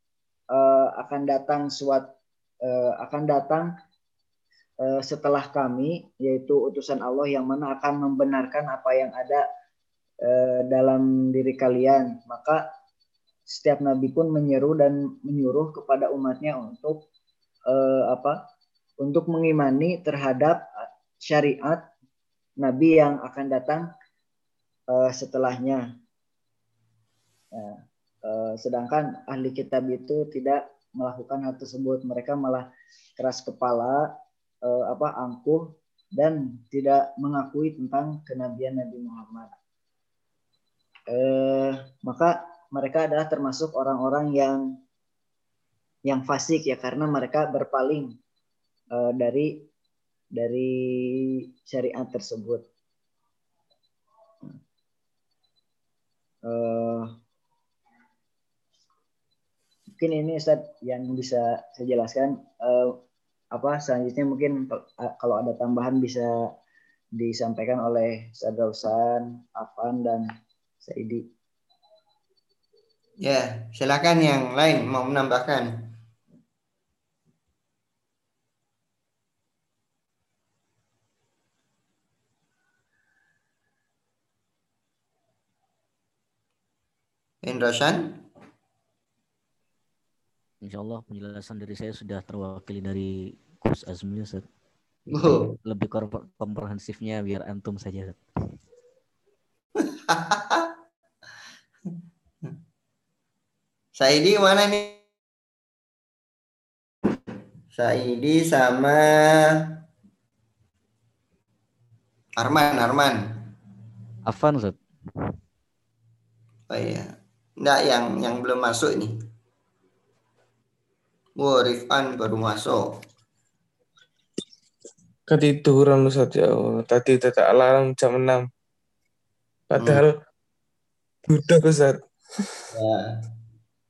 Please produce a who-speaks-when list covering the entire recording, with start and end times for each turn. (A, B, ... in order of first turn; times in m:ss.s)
0:00.5-0:02.1 A
0:02.6-0:03.7 A
0:04.8-0:09.4 A
0:10.2-0:12.6 A
0:13.5-0:17.0 A
0:17.7-0:18.4 A
0:19.0-0:20.6 A
0:21.2-0:21.8 A
0:22.6-0:23.9 A
0:24.9-0:25.8 A
0:27.5-0:34.1 A
0:34.6-0:39.5 A
0:41.1-0:44.8 A
0:46.1-0:48.1 A
0:48.9-0:49.7 A
0:50.3-0:52.6 A
0:56.4-0:57.1 A
1:00.0-1:03.0 A
1:03.5-1:06.3 A
1:07.2-1:10.3 A
1:10.8-1:11.2 A
1:13.2-1:15.9 B
1:27.4-1:28.2 B
1:30.6-1:34.4 C
1:35.1-1:35.5 B
1:35.6-1:38.2 C
1:39.8-1:40.7 B
1:44.0-1:45.0 B
1:47.7-1:49.4 B
1:52.4-1:53.2 B
1:54.2-1:54.8 C
1:56.7-1:59.1 B
2:01.4-2:02.9 B
2:05.3-2:08.4 D
2:09.7-2:10.1 D
2:09.8-2:10.0 B
2:11.2-2:12.0 D
2:12.7-2:13.2 B